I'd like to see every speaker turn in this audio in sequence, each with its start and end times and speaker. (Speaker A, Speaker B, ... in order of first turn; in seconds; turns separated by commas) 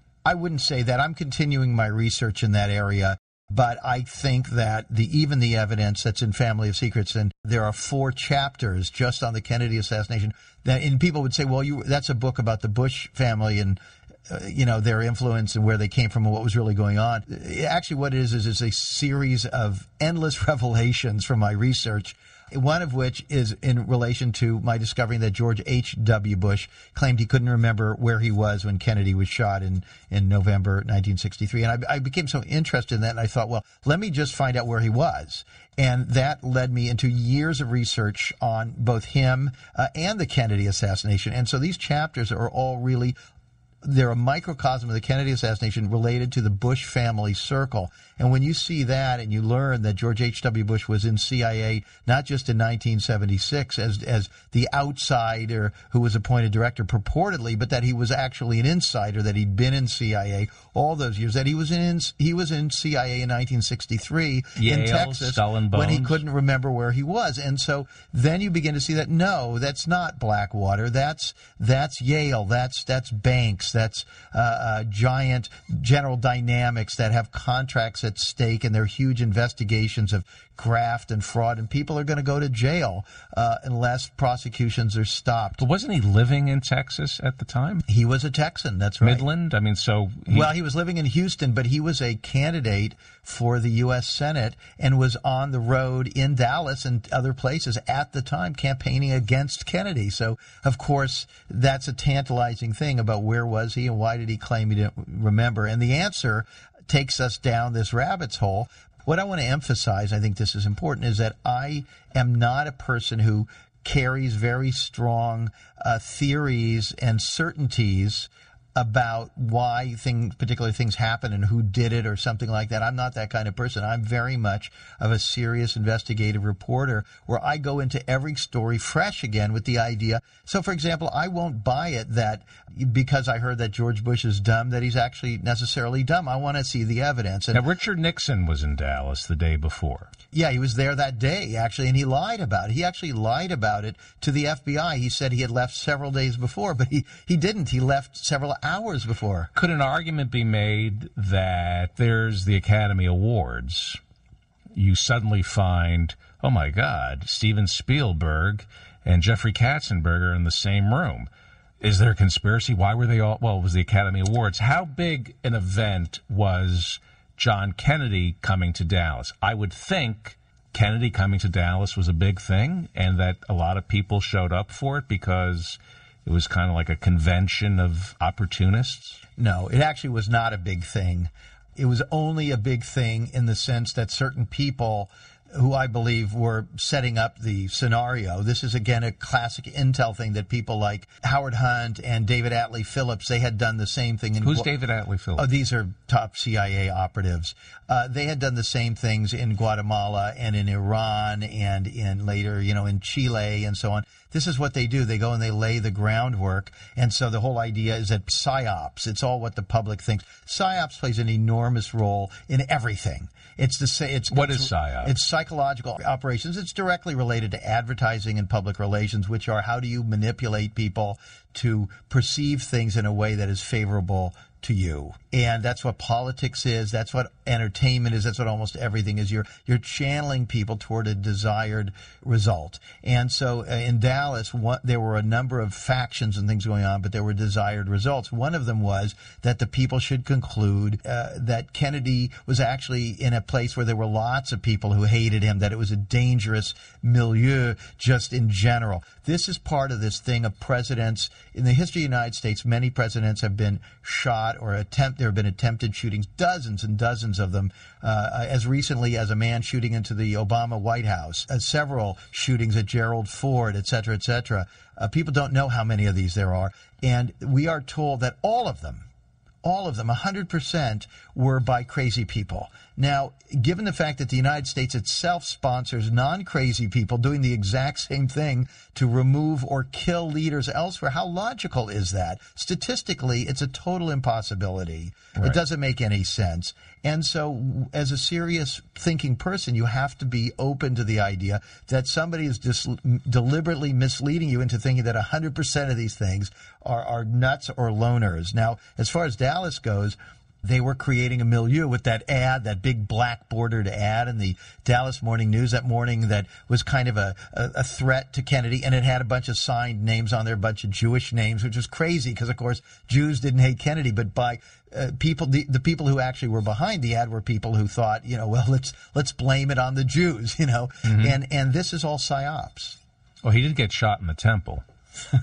Speaker A: 0.2-43.1, Speaker A: 43.8-85.6, Speaker B: 64.6-66.2, Speaker B: 85.6-87.8, Speaker A: 87.9-89.2, Speaker B: 89.0-90.5, Speaker A: 90.3-137.6, Speaker B: 137.5-140.1, Speaker A: 140.3-149.5, Speaker B: 149.6-154.0, Speaker B: 154.8-161.3, Speaker B: 161.8-179.2, Speaker A: 179.4-194.7, Speaker B: 194.4-195.5, Speaker A: 195.4-269.1, Speaker B: 214.3-215.1, Speaker A: 269.6-323.0, Speaker B: 321.1-321.4, Speaker B: 323.4-324.8